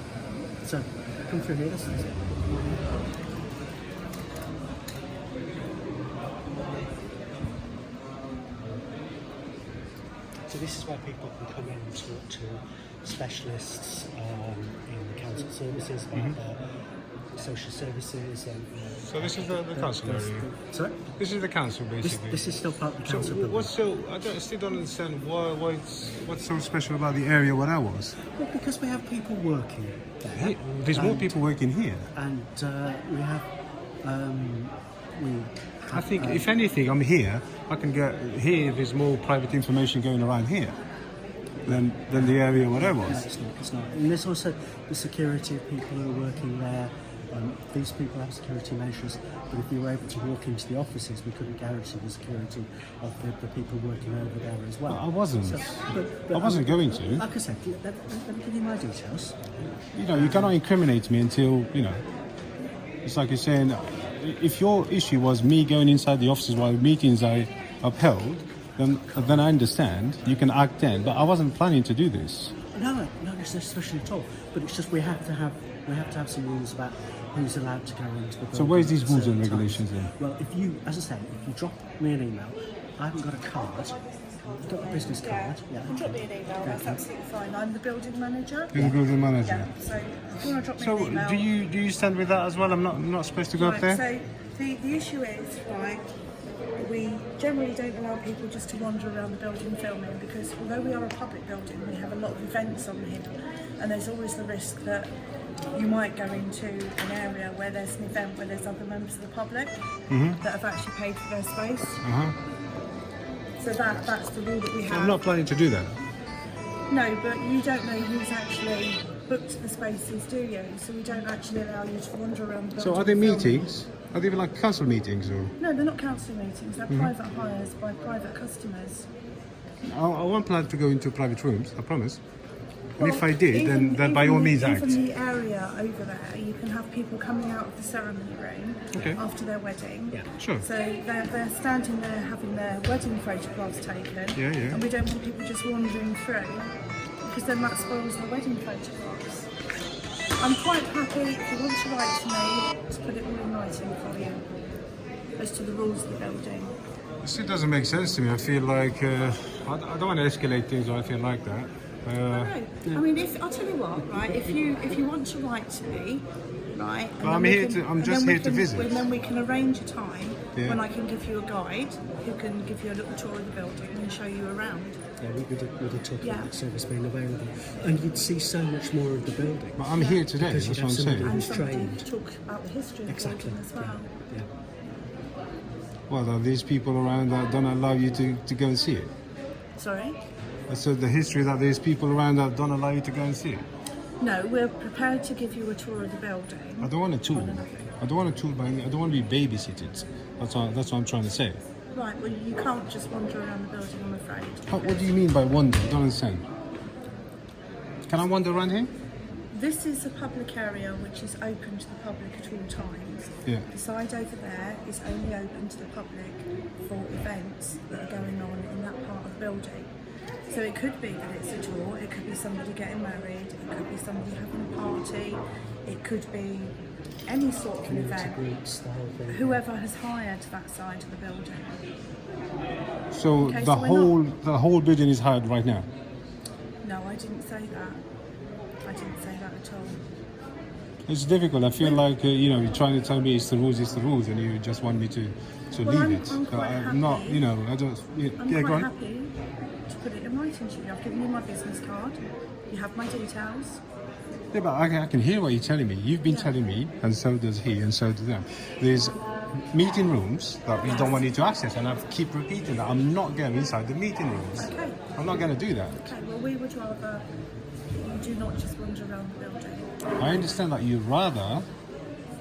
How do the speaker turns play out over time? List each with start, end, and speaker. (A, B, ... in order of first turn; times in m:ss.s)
0:00.6-0:02.4 A
0:10.5-0:16.7 A
0:17.4-0:21.2 A
0:19.0-0:20.5 B
0:21.2-0:28.2 B
0:22.0-0:23.7 A
0:28.2-0:31.4 A
0:30.4-0:32.1 B
0:32.1-0:33.5 A
0:34.0-0:36.5 A
0:35.9-0:40.8 B
0:41.6-0:59.4 A
0:41.6-0:43.2 B
0:54.9-0:57.2 B
1:00.0-1:02.0 B
1:00.1-1:00.6 A
1:03.0-1:12.6 B
1:09.1-1:09.5 A
1:12.7-1:24.0 A
1:18.5-1:20.1 B
1:24.3-1:31.5 C
1:24.6-1:27.0 A
1:28.7-1:29.7 B
1:30.8-1:34.0 B
1:33.6-1:36.0 C
1:36.8-1:45.2 C
1:45.7-1:49.8 C
1:50.1-1:50.4 B
1:50.4-1:52.0 C
1:52.0-1:52.4 B
1:53.6-1:55.2 C
1:54.9-1:56.0 B
1:56.9-2:03.7 C
2:02.8-2:05.5 B
2:05.6-2:09.1 C
2:09.8-2:12.2 B
2:13.0-2:15.0 B
2:13.0-2:29.5 C
2:18.9-2:19.2 B
2:20.4-2:20.7 B
2:24.4-2:24.8 B
2:30.4-2:34.4 C
2:35.4-2:36.8 C
2:37.2-2:42.5 B
2:42.3-2:55.0 C
2:47.2-2:49.1 B
2:50.6-2:50.8 B
2:55.2-3:02.0 A
2:56.2-2:56.5 C
2:59.8-3:01.4 B
3:00.0-3:00.2 C
3:01.2-3:04.1 C
3:03.1-3:04.5 A
3:06.1-3:09.1 B
3:09.8-3:10.2 C
3:10.7-3:13.6 B
3:14.2-3:17.9 C
3:16.8-3:21.6 B
3:21.9-3:25.1 C
3:24.7-3:26.5 B
3:28.1-3:28.9 B
3:29.5-3:39.9 C
3:40.5-3:48.4 C
3:47.8-3:49.6 A
3:49.3-3:51.8 C
3:53.1-3:55.9 B
3:53.4-3:54.2 C
3:56.8-3:58.0 C
3:58.8-4:00.0 C
4:01.1-4:08.9 B
4:05.8-4:07.4 C
4:08.4-4:09.4 C
4:09.9-4:12.2 C
4:12.7-4:13.8 C
4:14.5-4:26.1 B
4:16.3-4:16.6 C
4:20.8-4:21.2 C
4:24.6-4:25.1 C
4:26.0-4:27.3 C
4:28.0-4:30.0 C
4:30.2-4:31.7 B